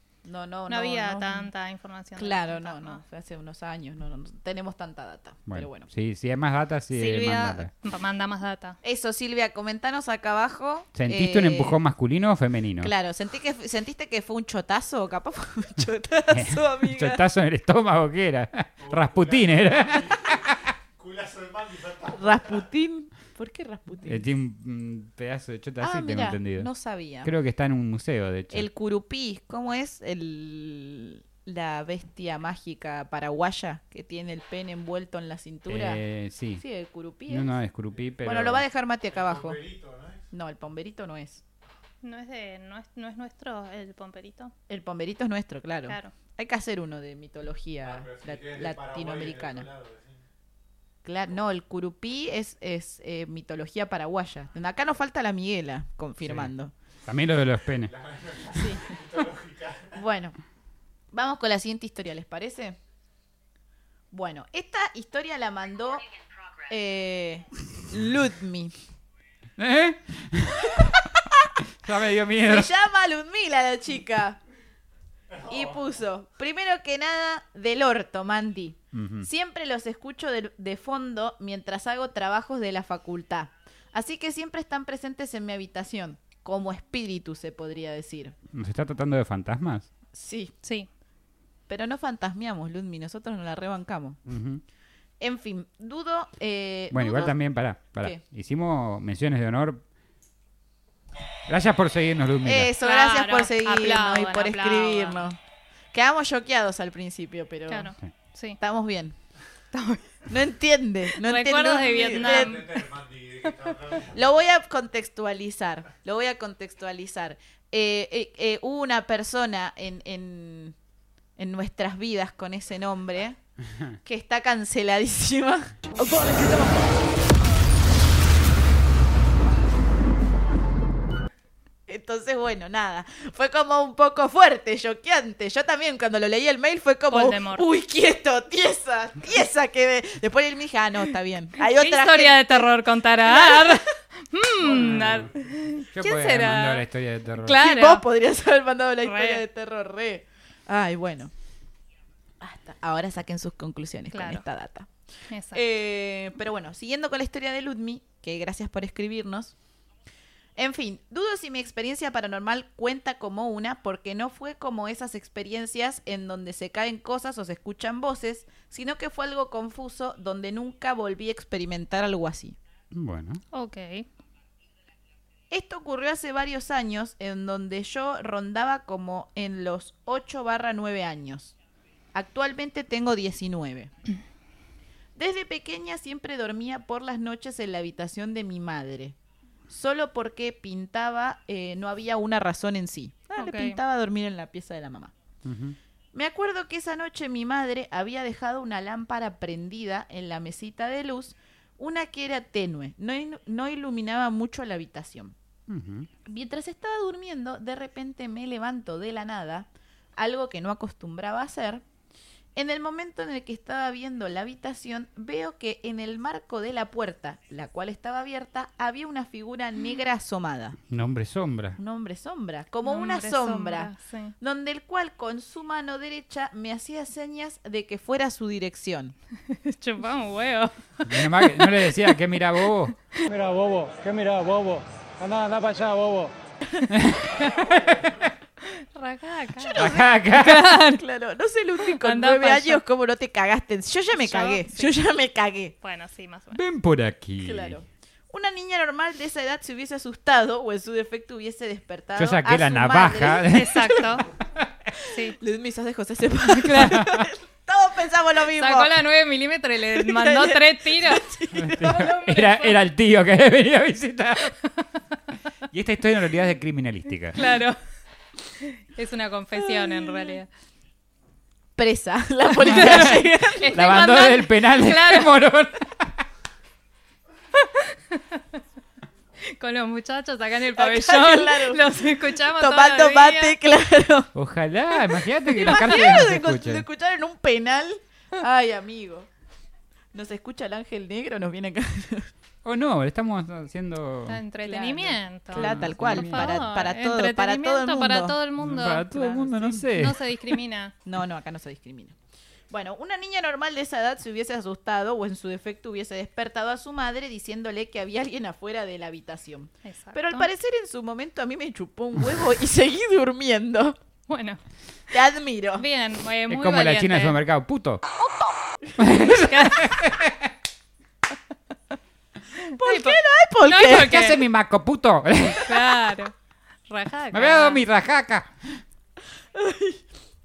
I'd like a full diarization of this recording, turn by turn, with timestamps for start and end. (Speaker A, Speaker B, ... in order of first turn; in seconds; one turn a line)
Speaker A: 0.2-1.5
Speaker B: 0.7-3.0
Speaker A: 2.1-5.9
Speaker C: 5.5-7.7
Speaker B: 6.9-8.8
Speaker A: 8.8-11.8
Speaker C: 10.9-12.9
Speaker A: 12.8-17.2
Speaker C: 16.3-20.6
Speaker D: 18.8-22.6
Speaker A: 22.1-24.2
Speaker C: 24.1-26.7
Speaker A: 25.8-27.3
Speaker C: 27.2-28.7
Speaker A: 28.5-36.0
Speaker C: 35.7-36.6
Speaker A: 36.6-37.5
Speaker C: 37.3-38.6
Speaker A: 38.2-39.6
Speaker D: 39.1-40.2
Speaker A: 40.3-41.4
Speaker B: 42.0-44.5
Speaker A: 44.7-49.7
Speaker B: 45.9-46.1
Speaker D: 47.8-50.2
Speaker A: 51.0-56.7
Speaker C: 56.2-56.5
Speaker C: 57.1-57.9
Speaker D: 57.9-60.0
Speaker A: 58.5-58.9
Speaker A: 59.9-60.4
Speaker A: 61.1-62.8
Speaker A: 64.1-66.0
Speaker A: 66.7-68.7
Speaker C: 69.6-70.9
Speaker C: 71.8-72.7
Speaker A: 72.5-74.4
Speaker D: 75.3-75.8
Speaker A: 75.4-88.3
Speaker C: 78.9-79.3
Speaker C: 88.5-89.9
Speaker A: 90.1-90.5
Speaker A: 91.7-94.2
Speaker C: 94.3-94.6
Speaker A: 95.2-97.4
Speaker C: 96.9-99.8
Speaker C: 101.5-102.7
Speaker A: 102.4-105.4
Speaker B: 102.8-105.3
Speaker A: 105.9-107.9
Speaker B: 107.7-108.6
Speaker A: 108.6-109.2
Speaker B: 109.7-110.0
Speaker A: 110.3-112.7
Speaker B: 111.1-112.8
Speaker D: 111.8-114.2
Speaker A: 114.1-120.8
Speaker A: 121.4-123.4
Speaker A: 124.0-126.2
Speaker A: 131.9-142.7
Speaker B: 137.1-137.7
Speaker B: 141.6-146.8
Speaker A: 143.2-143.9
Speaker C: 144.6-145.3
Speaker C: 145.9-147.6
Speaker B: 147.4-148.1
Speaker A: 147.6-151.3
Speaker B: 149.1-149.4
Speaker A: 152.4-154.9
Speaker B: 154.1-154.4
Speaker B: 155.3-155.6
Speaker A: 155.5-159.6
Speaker A: 160.6-172.6
Speaker C: 172.9-173.4
Speaker B: 173.5-174.1
Speaker A: 175.5-181.5
Speaker A: 182.1-183.9
Speaker A: 185.2-189.1
Speaker A: 189.7-195.1
Speaker B: 193.4-193.8
Speaker C: 195.4-195.8
Speaker A: 196.1-205.3
Speaker C: 205.7-206.1
Speaker A: 206.2-211.8
Speaker A: 212.6-220.8
Speaker C: 220.9-221.8
Speaker A: 221.8-229.1
Speaker B: 222.8-224.3
Speaker B: 229.5-233.3
Speaker C: 231.1-232.9
Speaker E: 233.3-236.3
Speaker C: 236.9-238.3
Speaker B: 238.7-241.0
Speaker C: 239.7-240.7
Speaker A: 240.7-245.7
Speaker B: 241.8-242.8
Speaker B: 244.1-245.0
Speaker B: 245.8-246.6
Speaker C: 246.5-247.8
Speaker A: 247.4-254.0
Speaker C: 252.2-254.7
Speaker B: 253.5-254.3
Speaker B: 255.1-255.4
Speaker A: 255.4-258.9
Speaker B: 256.6-257.0
Speaker C: 256.7-257.3
Speaker B: 258.6-261.2
Speaker A: 259.9-262.0
Speaker C: 261.6-264.6
Speaker B: 261.8-262.8
Speaker C: 265.7-267.4
Speaker B: 267.3-267.8
Speaker B: 268.6-270.5
Speaker A: 269.6-270.4
Speaker A: 271.8-273.7
Speaker B: 272.6-275.3
Speaker C: 272.6-276.2
Speaker B: 277.6-278.6
Speaker B: 279.5-283.6
Speaker A: 280.8-281.8
Speaker A: 282.6-284.3
Speaker C: 284.3-286.8
Speaker A: 285.5-289.3
Speaker A: 290.1-292.3
Speaker C: 292.6-294.4
Speaker B: 294.3-300.9
Speaker A: 294.6-298.4
Speaker C: 295.5-296.6
Speaker C: 298.6-300.3
Speaker A: 299.1-299.7
Speaker A: 301.1-302.1
Speaker A: 302.7-314.0
Speaker B: 309.9-310.5
Speaker B: 314.3-314.6
Speaker A: 315.1-315.9
Speaker B: 315.8-317.4
Speaker C: 316.5-318.0
Speaker C: 319.0-320.5
Speaker B: 319.5-319.8
Speaker B: 322.7-324.4
Speaker A: 322.8-324.3
Speaker C: 323.9-325.8
Speaker B: 325.6-326.3
Speaker B: 326.9-327.8
Speaker C: 327.3-328.8
Speaker A: 329.5-330.0